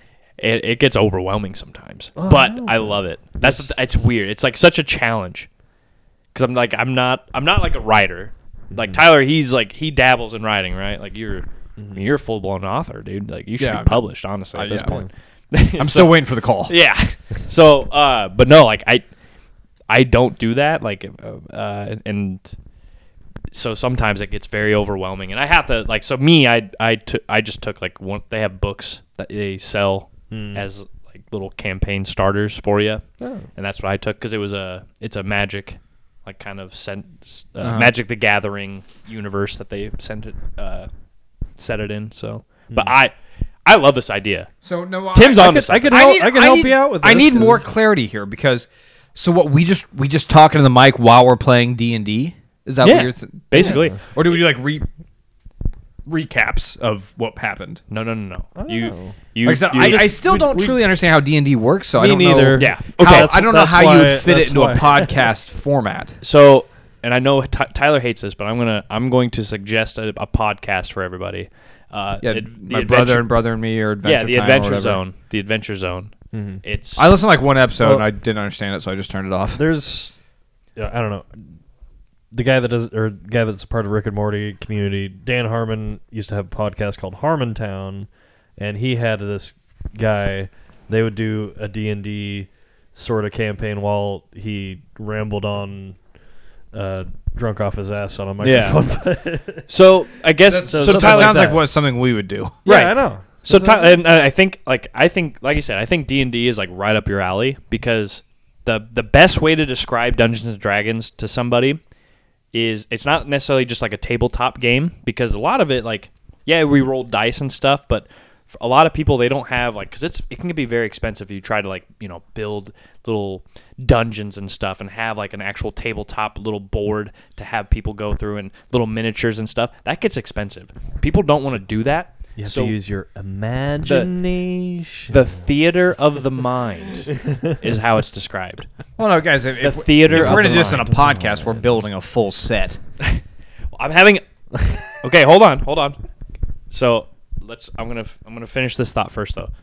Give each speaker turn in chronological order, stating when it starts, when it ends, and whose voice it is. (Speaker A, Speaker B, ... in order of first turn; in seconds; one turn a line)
Speaker A: 0.4-5.5
Speaker B: 2.2-3.8
Speaker A: 6.3-19.0
Speaker B: 8.7-9.0
Speaker B: 11.8-12.0
Speaker C: 13.6-15.0
Speaker B: 14.8-15.1
Speaker C: 15.8-16.7
Speaker A: 19.9-22.5
Speaker A: 23.5-33.0
Speaker B: 30.3-30.6
Speaker B: 33.2-33.5
Speaker A: 33.6-40.9
Speaker C: 37.6-37.9
Speaker A: 41.6-43.1
Speaker A: 43.7-44.5
Speaker C: 44.6-54.9
Speaker A: 45.1-46.0
Speaker B: 45.3-47.6
Speaker A: 52.8-54.0
Speaker B: 53.5-54.0
Speaker C: 56.1-57.8
Speaker A: 57.9-60.2
Speaker B: 58.6-59.1
Speaker C: 59.4-66.2
Speaker B: 59.8-60.8
Speaker B: 62.0-65.3
Speaker A: 62.6-63.3
Speaker A: 66.2-73.3
Speaker C: 72.2-75.0
Speaker A: 74.0-77.2
Speaker B: 76.3-76.6
Speaker C: 77.0-79.6
Speaker B: 77.8-78.1
Speaker B: 79.5-80.1
Speaker B: 80.8-81.6
Speaker B: 82.3-96.0
Speaker B: 96.7-99.7
Speaker A: 98.4-98.8
Speaker A: 99.7-101.6
Speaker C: 100.5-102.6
Speaker B: 100.7-101.6
Speaker B: 102.7-104.0
Speaker A: 102.7-111.8
Speaker A: 112.5-132.8
Speaker B: 132.4-135.2
Speaker A: 133.8-134.1
Speaker A: 135.1-138.7
Speaker B: 137.2-137.6
Speaker C: 139.0-142.8
Speaker A: 139.6-140.9
Speaker B: 140.1-141.6
Speaker A: 143.8-144.2
Speaker B: 144.6-144.9
Speaker A: 145.0-146.0
Speaker A: 146.7-149.5